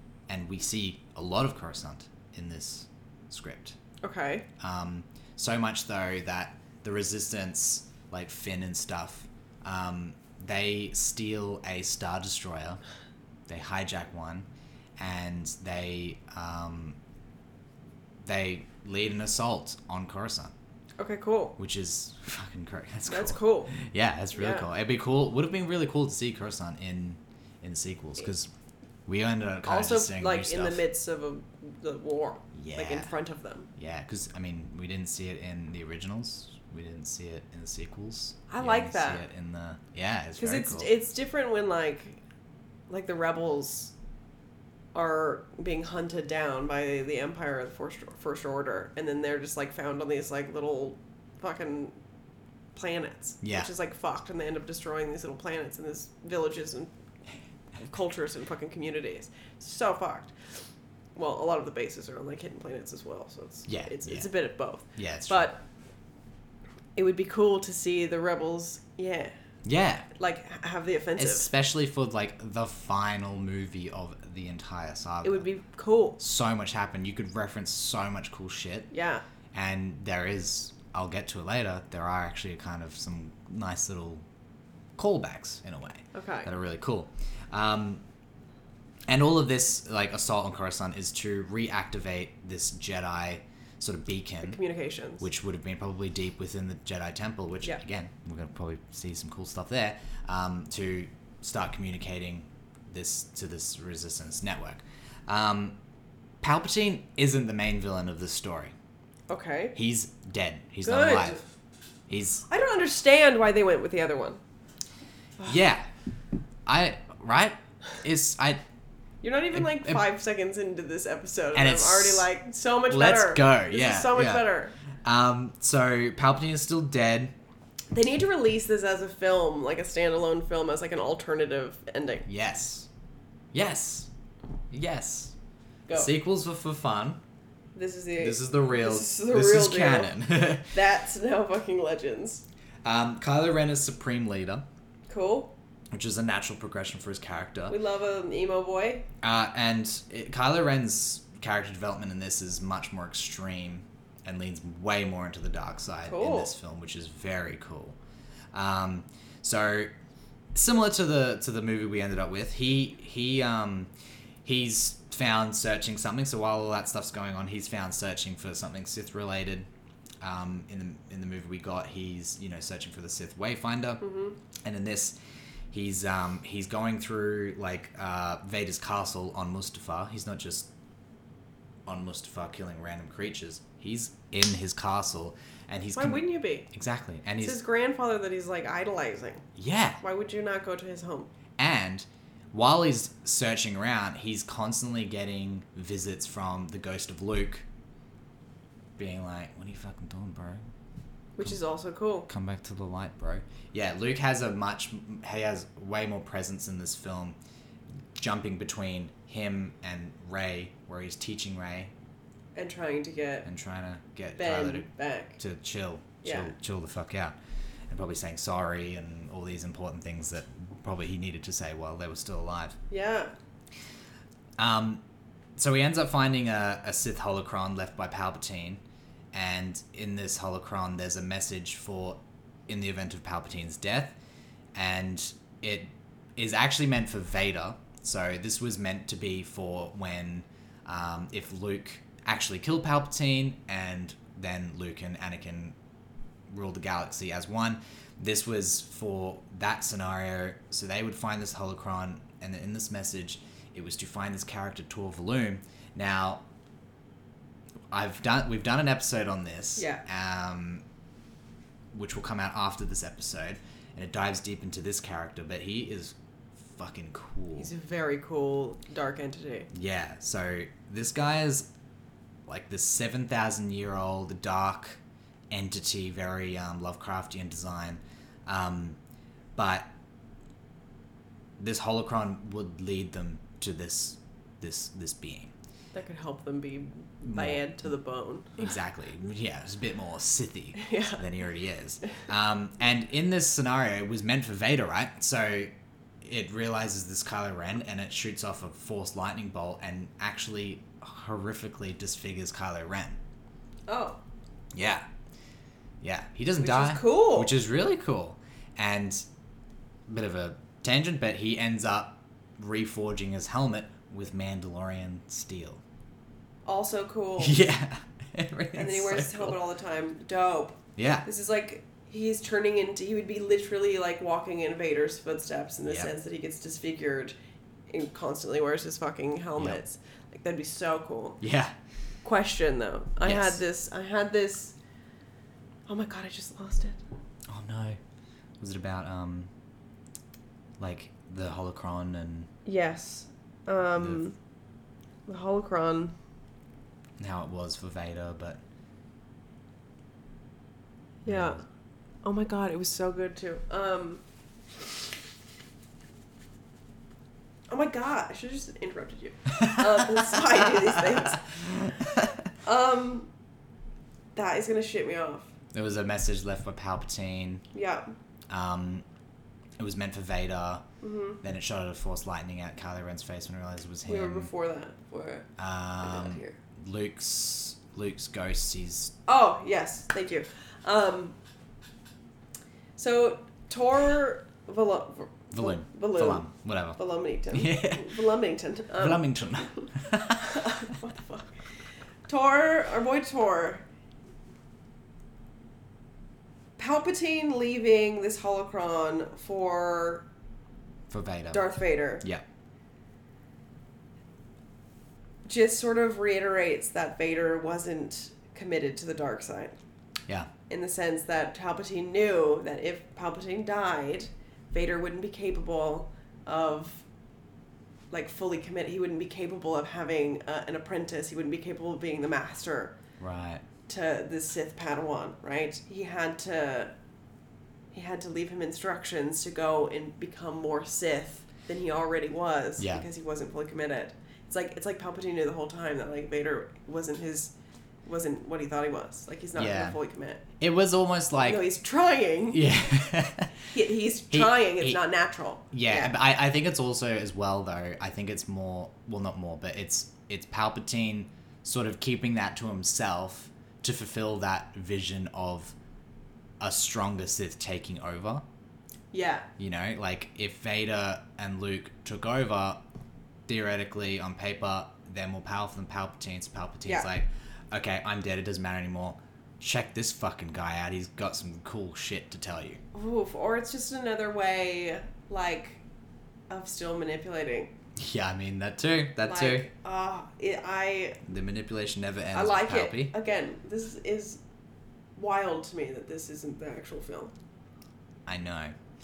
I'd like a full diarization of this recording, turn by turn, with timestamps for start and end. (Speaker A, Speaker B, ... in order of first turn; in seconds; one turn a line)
Speaker A: 0.3-3.8
Speaker B: 4.0-4.5
Speaker A: 4.6-12.8
Speaker A: 13.5-14.5
Speaker A: 15.0-17.0
Speaker A: 18.2-20.5
Speaker B: 21.0-21.6
Speaker A: 21.6-28.5
Speaker B: 23.1-23.7
Speaker B: 24.3-24.7
Speaker A: 29.1-30.8
Speaker B: 29.6-33.7
Speaker A: 32.5-33.1
Speaker A: 33.8-40.9
Speaker B: 38.5-39.2
Speaker B: 40.4-42.2
Speaker B: 42.9-43.9
Speaker B: 44.9-52.0
Speaker B: 52.7-56.9
Speaker A: 53.4-53.7
Speaker B: 57.8-60.6
Speaker B: 61.1-65.6
Speaker A: 63.7-64.3
Speaker A: 65.0-65.5
Speaker B: 67.0-69.3
Speaker A: 69.7-70.1
Speaker B: 70.2-71.5
Speaker A: 71.2-75.5
Speaker B: 75.2-76.2
Speaker A: 76.2-78.9
Speaker B: 78.9-79.2
Speaker A: 79.5-84.2
Speaker A: 85.0-88.0
Speaker B: 86.1-86.5
Speaker A: 89.1-94.6
Speaker B: 94.4-95.3
Speaker A: 95.2-105.8
Speaker A: 106.4-108.7
Speaker B: 109.3-109.8
Speaker A: 109.8-111.4
Speaker B: 110.8-111.4
Speaker A: 112.1-112.5
Speaker B: 112.5-114.4
Speaker A: 115.4-115.9
Speaker A: 116.7-118.6
Speaker B: 119.2-124.8
Speaker A: 119.5-120.0
Speaker A: 121.5-122.3
Speaker A: 122.9-124.5
Speaker A: 125.0-127.3
Speaker B: 127.9-132.3
Speaker A: 132.3-132.9
Speaker A: 133.5-134.1
Speaker A: 134.7-135.3
Speaker A: 135.9-137.2
Speaker B: 137.7-142.4
Speaker A: 138.2-140.8
Speaker A: 142.8-144.7
Speaker B: 145.1-145.5
Speaker A: 145.9-147.8
Speaker B: 147.7-149.1
Speaker A: 149.2-158.0
Speaker B: 156.1-156.5
Speaker A: 158.5-159.9
Speaker A: 160.5-163.9
Speaker A: 164.4-169.7
Speaker A: 170.2-174.0
Speaker B: 174.0-174.4
Speaker A: 174.6-175.2
Speaker A: 175.7-180.7
Speaker A: 181.9-187.6
Speaker B: 185.9-186.7
Speaker B: 187.4-189.5
Speaker A: 189.6-190.0
Speaker B: 190.0-191.3
Speaker A: 191.6-197.7
Speaker A: 199.0-200.7
Speaker B: 201.4-202.3
Speaker A: 202.3-207.4
Speaker A: 208.2-211.9
Speaker B: 212.6-213.5
Speaker A: 213.5-217.3
Speaker B: 214.4-215.4
Speaker B: 216.2-216.5
Speaker A: 217.9-222.8
Speaker B: 222.9-223.3
Speaker A: 224.6-225.0
Speaker A: 225.6-228.8
Speaker A: 229.3-234.2
Speaker A: 234.8-245.8
Speaker A: 246.5-256.4
Speaker A: 257.9-260.8
Speaker B: 259.8-260.0
Speaker A: 261.9-267.7
Speaker B: 267.6-269.7
Speaker A: 269.7-271.7
Speaker A: 272.5-275.0
Speaker A: 275.5-279.0
Speaker A: 279.6-279.9
Speaker A: 281.6-285.5
Speaker B: 285.9-288.7
Speaker A: 287.2-287.6
Speaker A: 288.6-295.7
Speaker B: 290.8-291.2
Speaker A: 296.2-303.2
Speaker B: 303.9-304.2
Speaker A: 304.7-305.1
Speaker A: 306.0-309.2
Speaker B: 306.6-307.5
Speaker A: 310.1-315.8
Speaker B: 316.6-317.6
Speaker A: 317.4-319.6
Speaker B: 318.8-327.4
Speaker A: 321.0-321.3
Speaker B: 327.9-331.4
Speaker A: 329.6-329.8
Speaker A: 331.4-331.7
Speaker B: 332.2-334.8
Speaker A: 333.2-333.6
Speaker B: 335.9-337.0
Speaker A: 337.5-338.0
Speaker A: 338.6-339.5
Speaker A: 340.8-342.5
Speaker B: 342.6-344.4
Speaker A: 344.0-344.2
Speaker B: 345.3-346.1
Speaker A: 347.2-348.6
Speaker B: 351.2-351.6
Speaker A: 351.3-351.6
Speaker B: 352.2-354.2
Speaker B: 357.7-361.7
Speaker A: 359.6-362.4
Speaker B: 362.6-363.3
Speaker B: 364.4-365.5
Speaker A: 365.7-367.6
Speaker B: 367.7-368.1
Speaker A: 368.5-369.1
Speaker A: 369.8-370.8
Speaker B: 371.0-371.4
Speaker A: 371.4-374.5
Speaker B: 374.1-375.5
Speaker A: 375.6-379.1
Speaker B: 376.0-376.6
Speaker B: 379.3-381.4
Speaker B: 383.0-386.5
Speaker A: 385.5-387.0
Speaker B: 387.0-389.2
Speaker A: 387.5-388.3
Speaker A: 388.9-391.0
Speaker B: 390.4-391.6
Speaker B: 392.3-393.9
Speaker B: 396.8-400.3
Speaker A: 401.1-401.7
Speaker B: 401.5-402.2
Speaker B: 405.4-409.8
Speaker B: 410.7-417.1
Speaker B: 418.1-423.0
Speaker A: 423.2-423.6
Speaker B: 423.9-426.9
Speaker B: 427.9-440.4
Speaker A: 432.8-433.1
Speaker A: 439.6-440.0
Speaker A: 440.6-441.7
Speaker B: 441.4-442.6
Speaker A: 442.5-443.7
Speaker B: 443.7-446.1
Speaker A: 444.3-445.0
Speaker A: 445.7-455.8
Speaker A: 456.6-458.4
Speaker B: 459.1-459.5
Speaker A: 459.6-462.8
Speaker A: 463.5-472.8
Speaker B: 472.9-475.8
Speaker B: 476.5-477.7
Speaker A: 478.0-479.7
Speaker B: 479.3-481.2
Speaker A: 481.2-483.1
Speaker B: 482.3-484.4
Speaker B: 485.2-487.3
Speaker A: 488.3-488.8